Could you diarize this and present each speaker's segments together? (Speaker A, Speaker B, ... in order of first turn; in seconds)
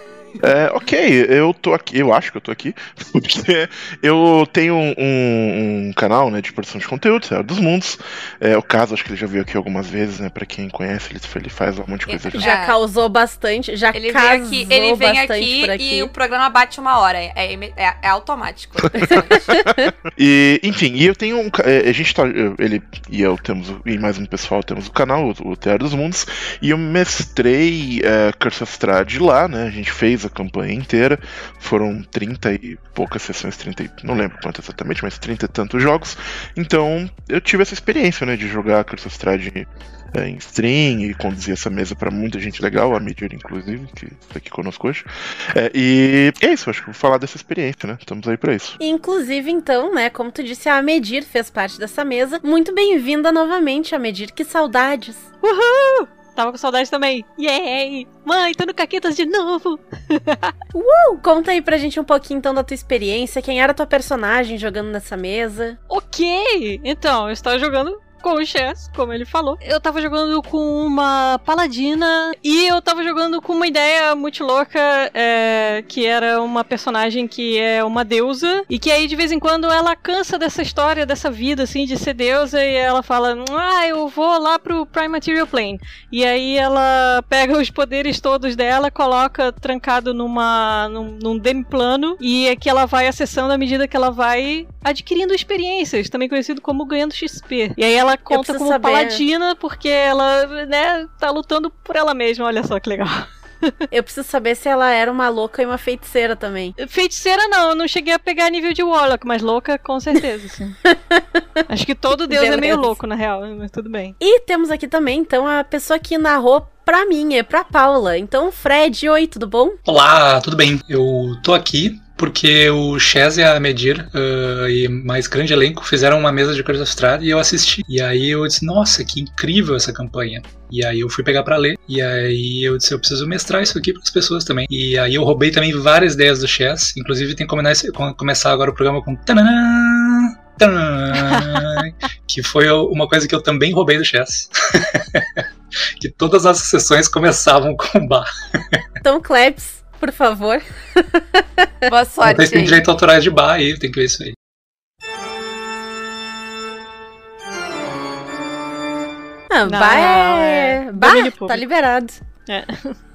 Speaker A: 0.4-12.5, 19.1-48.8
Speaker B: 12.1-12.8, 13.9-19.4, 151.9-152.8
Speaker C: 12.3-16.1, 19.1-19.9, 48.8-55.3, 60.7-65.8, 98.3-99.2, 103.9-106.7, 111.1-111.6, 112.3-112.9, 114.2-119.8, 149.0-151.9, 159.5-162.2
Speaker D: 55.4-60.5, 65.9-103.8, 106.8-110.8, 111.7-114.2, 141.3-141.6, 159.7-161.6, 162.5-163.0
Speaker E: 119.8-145.4, 146.0-148.8, 152.2-154.3